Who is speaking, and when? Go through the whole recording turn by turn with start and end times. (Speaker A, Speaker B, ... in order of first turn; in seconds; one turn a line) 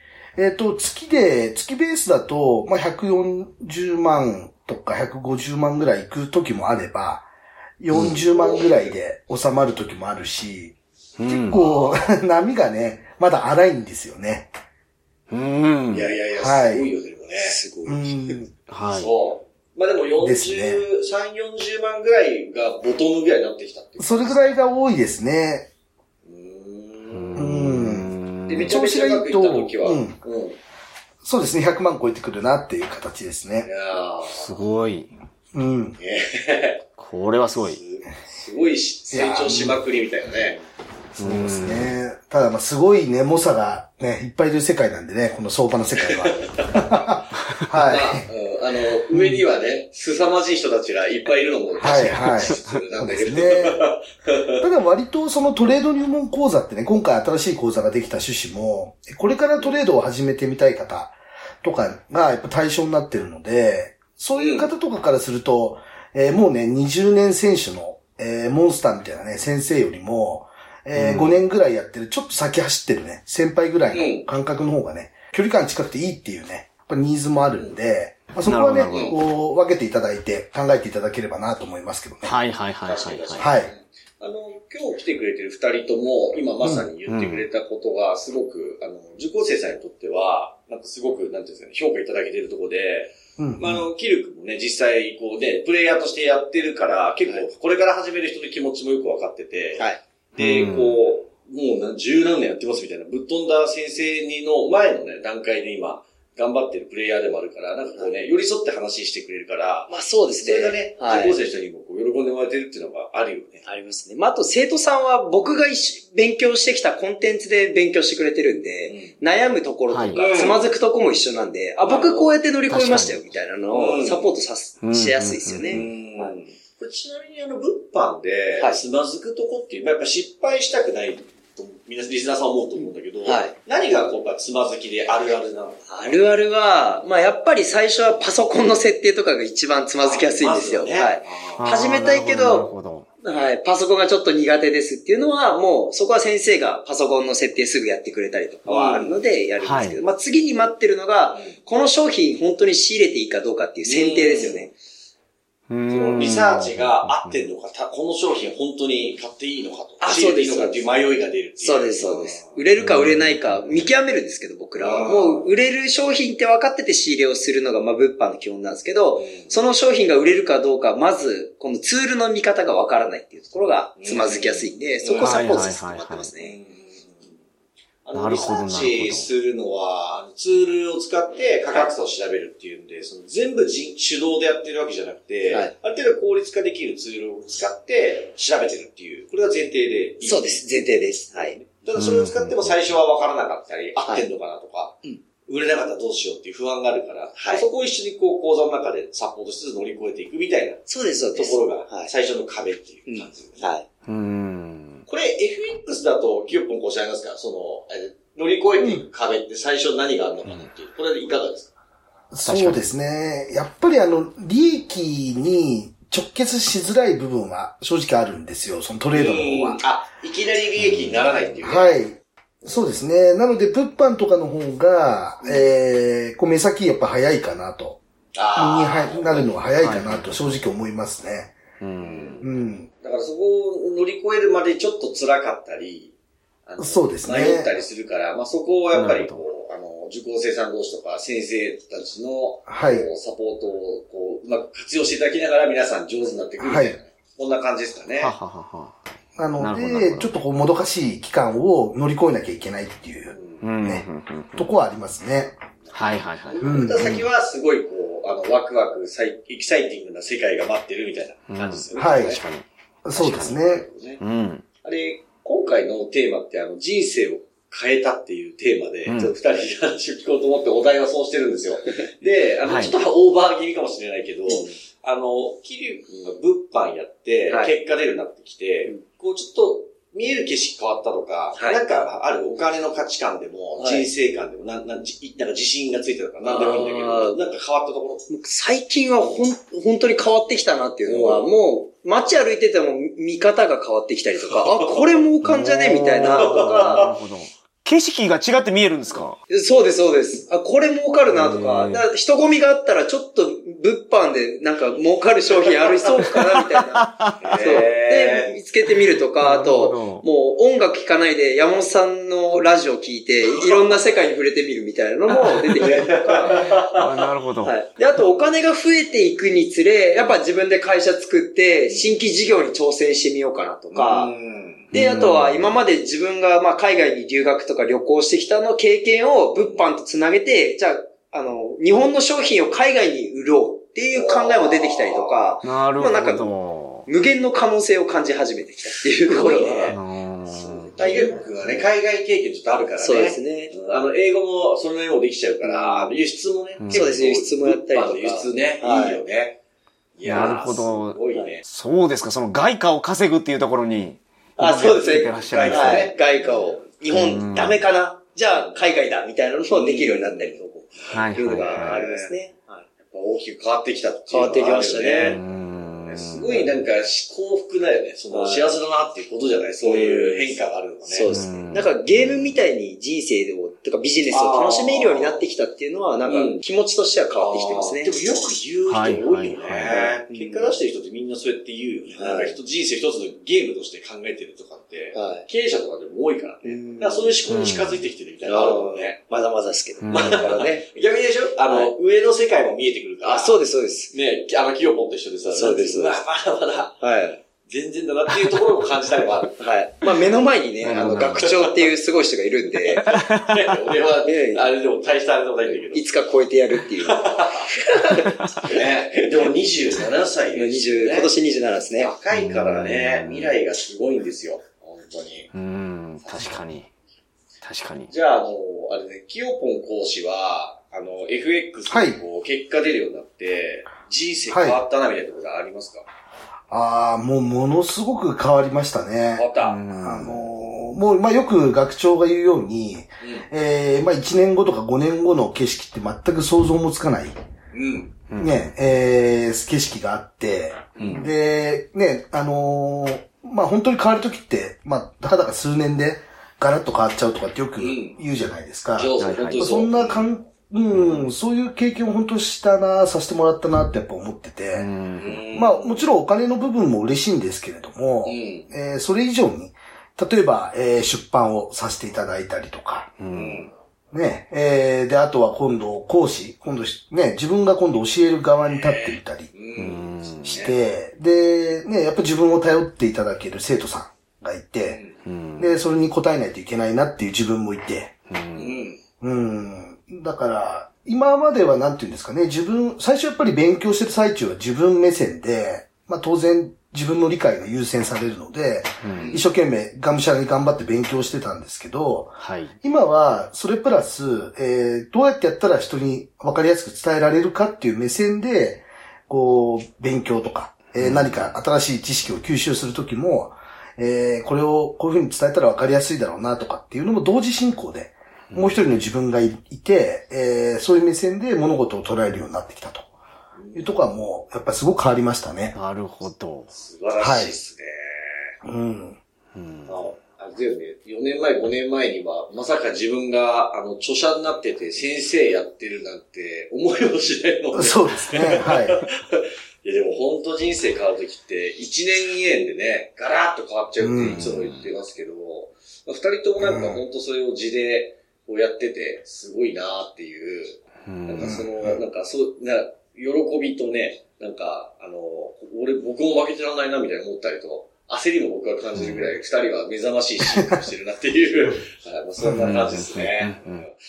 Speaker A: 0.3-7.3
Speaker A: 7.8-10.7
Speaker B: 7.9-8.2
Speaker C: 8.3-8.9
Speaker B: 11.2-11.6
Speaker A: 11.3-14.5
Speaker C: 11.5-12.1
Speaker B: 15.3-16.1
Speaker C: 15.9-17.6
Speaker A: 16.3-16.9
Speaker D: 17.4-18.4
Speaker A: 17.8-18.5
Speaker B: 18.7-19.1
Speaker C: 18.9-24.6
Speaker A: 20.2-20.8
Speaker A: 24.0-25.7
Speaker C: 26.2-27.5
Speaker B: 27.1-28.8
Speaker A: 27.3-30.2
Speaker C: 28.5-30.6
Speaker A: 31.2-33.7
Speaker C: 33.6-34.6
Speaker B: 34.3-35.1
Speaker A: 35.5-36.0
Speaker C: 36.0-36.8
Speaker B: 37.0-37.8
Speaker C: 37.5-40.6
Speaker A: 39.1-39.8
Speaker A: 41.2-48.2
Speaker B: 41.2-41.9
Speaker C: 46.0-47.1
Speaker C: 47.8-54.6
Speaker A: 49.1-49.4
Speaker A: 51.8-53.8
Speaker B: 51.8-52.8
Speaker A: 54.6-82.3
Speaker C: 64.3-64.7
Speaker B: 70.9-71.4
Speaker C: 73.9-74.2
Speaker B: 78.4-79.2
Speaker B: 82.2-83.5
Speaker C: 82.8-99.8
Speaker A: 83.3-83.7
Speaker A: 86.6-86.9
Speaker B: 87.1-87.5
Speaker A: 93.4-93.8
Speaker C: 100.3-113.6
Speaker B: 100.4-101.0
Speaker D: 109.9-111.3
Speaker D: 113.6-126.3
Speaker C: 118.9-119.1
Speaker B: 119.9-120.3
Speaker C: 120.2-120.6
Speaker C: 121.8-122.3
Speaker B: 122.7-123.2
Speaker C: 123.7-124.3
Speaker B: 124.8-125.9
Speaker C: 125.7-136.2
Speaker D: 132.8-133.5
Speaker D: 135.9-142.7
Speaker C: 140.0-141.7
Speaker B: 141.6-143.1
Speaker D: 143.2-154.7
Speaker C: 148.7-149.2
Speaker B: 149.6-150.0
Speaker C: 153.8-154.7
Speaker B: 155.7-157.4
Speaker C: 155.9-162.5
Speaker D: 160.0-160.9
Speaker D: 161.6-176.6
Speaker B: 162.8-163.4
Speaker C: 164.8-165.5
Speaker C: 169.2-169.5
Speaker C: 174.0-175.3
Speaker B: 175.2-176.3
Speaker C: 176.4-177.3
Speaker C: 178.0-190.6
Speaker B: 178.1-179.3
Speaker D: 190.2-191.6
Speaker C: 191.3-203.6
Speaker B: 191.9-193.0
Speaker D: 197.3-197.6
Speaker D: 200.9-202.1
Speaker D: 203.1-203.8
Speaker B: 204.1-205.0
Speaker C: 205.1-211.7
Speaker A: 212.3-219.8
Speaker B: 212.4-212.8
Speaker C: 219.1-222.0
Speaker B: 220.8-221.5
Speaker A: 221.6-228.0
Speaker C: 228.3-229.5
Speaker A: 228.5-231.6
Speaker B: 229.8-230.6
Speaker B: 231.8-232.4
Speaker C: 232.0-232.5
Speaker A: 232.4-232.9
Speaker C: 233.0-236.1
Speaker C: 236.7-248.3
Speaker A: 236.8-237.7
Speaker B: 238.9-239.4
Speaker A: 242.7-243.1
Speaker A: 246.6-247.0
Speaker B: 248.2-249.0
Speaker A: 249.4-255.5
Speaker B: 249.6-250.3
Speaker C: 253.3-253.6
Speaker B: 253.6-254.7
Speaker B: 255.9-256.9
Speaker C: 256.4-262.4
Speaker A: 256.6-257.2
Speaker B: 261.5-263.5
Speaker A: 261.9-262.4
Speaker A: 263.0-263.9
Speaker C: 263.2-264.2
Speaker B: 264.2-264.6
Speaker C: 264.8-288.2
Speaker B: 272.6-272.9
Speaker D: 274.5-274.7
Speaker D: 277.5-277.7
Speaker D: 281.6-282.0
Speaker D: 283.8-284.1
Speaker D: 286.4-287.4
Speaker D: 288.3-297.0
Speaker C: 291.1-291.5
Speaker C: 294.4-295.2
Speaker B: 295.4-299.4
Speaker C: 296.2-297.1
Speaker D: 299.5-316.7
Speaker B: 301.3-302.0
Speaker B: 306.9-307.8
Speaker C: 307.4-308.5
Speaker B: 309.4-310.2
Speaker C: 315.3-317.1
Speaker B: 316.9-317.7
Speaker D: 317.6-324.3
Speaker C: 321.9-322.2
Speaker C: 323.9-324.9
Speaker D: 324.9-336.5
Speaker B: 324.9-325.8
Speaker C: 329.6-329.9
Speaker C: 334.1-335.5
Speaker B: 335.6-337.1
Speaker D: 337.1-339.9
Speaker C: 339.2-349.6
Speaker B: 339.9-341.3
Speaker D: 341.0-341.4
Speaker D: 343.0-343.7
Speaker D: 345.6-346.1
Speaker B: 346.8-347.2
Speaker D: 346.9-349.2
Speaker C: 350.2-351.6
Speaker B: 350.2-356.1
Speaker D: 350.3-350.6
Speaker D: 354.6-362.8
Speaker C: 355.0-356.8
Speaker B: 357.1-357.8
Speaker C: 359.7-362.3
Speaker B: 361.1-362.0
Speaker C: 363.0-371.3
Speaker D: 364.3-365.4
Speaker B: 365.2-366.8
Speaker D: 368.3-368.8
Speaker D: 369.8-378.1
Speaker B: 371.3-372.6
Speaker C: 374.3-375.4
Speaker C: 376.3-376.6
Speaker C: 377.4-389.2
Speaker B: 378.9-379.9
Speaker D: 379.8-380.7
Speaker D: 382.1-382.6
Speaker D: 385.1-385.4
Speaker D: 386.6-387.4
Speaker B: 387.5-388.1
Speaker D: 388.4-390.8
Speaker B: 390.0-390.6
Speaker C: 390.1-393.6
Speaker D: 393.2-394.1
Speaker C: 394.1-397.0
Speaker D: 395.5-396.2
Speaker D: 397.0-397.4
Speaker C: 397.6-399.6
Speaker D: 399.6-403.1
Speaker B: 400.8-401.6
Speaker C: 401.0-401.7
Speaker C: 402.9-406.0
Speaker B: 403.1-403.4
Speaker D: 404.2-404.7
Speaker D: 405.6-408.7
Speaker C: 407.0-407.7
Speaker C: 408.4-411.3
Speaker D: 410.5-412.1
Speaker C: 412.0-415.5
Speaker B: 412.3-413.5
Speaker B: 415.5-416.9
Speaker C: 416.2-416.6
Speaker B: 417.6-418.1
Speaker C: 418.1-426.1
Speaker A: 421.9-422.2
Speaker A: 424.5-424.8
Speaker A: 426.7-437.4
Speaker C: 429.4-429.8
Speaker B: 429.6-430.5
Speaker C: 437.7-438.2
Speaker B: 438.3-438.7
Speaker A: 438.4-454.9
Speaker C: 440.9-441.3
Speaker B: 441.0-441.3
Speaker C: 447.8-448.2
Speaker C: 448.9-450.2
Speaker B: 449.2-449.8
Speaker C: 451.0-451.3
Speaker B: 454.7-455.4
Speaker C: 455.2-456.1
Speaker A: 455.5-463.1
Speaker C: 458.2-458.7
Speaker B: 463.2-463.6
Speaker C: 463.3-463.7
Speaker A: 464.1-469.5
Speaker C: 468.6-470.8
Speaker B: 469.8-470.6
Speaker A: 470.5-475.0
Speaker C: 474.9-475.2
Speaker B: 475.2-475.7
Speaker A: 475.6-478.2
Speaker B: 478.3-478.8
Speaker C: 478.5-479.0
Speaker A: 479.2-513.1
Speaker B: 489.0-489.4
Speaker C: 489.1-489.4
Speaker B: 492.4-492.7
Speaker B: 500.9-501.5
Speaker B: 508.5-508.8
Speaker C: 513.5-514.0
Speaker A: 513.7-515.8
Speaker B: 515.7-516.7
Speaker C: 516.7-518.5
Speaker A: 517.2-517.5
Speaker A: 518.6-519.2
Speaker B: 519.5-520.0
Speaker C: 519.9-553.9
Speaker A: 527.7-529.0
Speaker A: 534.0-534.5
Speaker B: 534.2-534.9
Speaker A: 536.6-537.0
Speaker B: 541.0-541.6
Speaker A: 541.4-542.0
Speaker B: 548.9-549.3
Speaker B: 552.4-553.8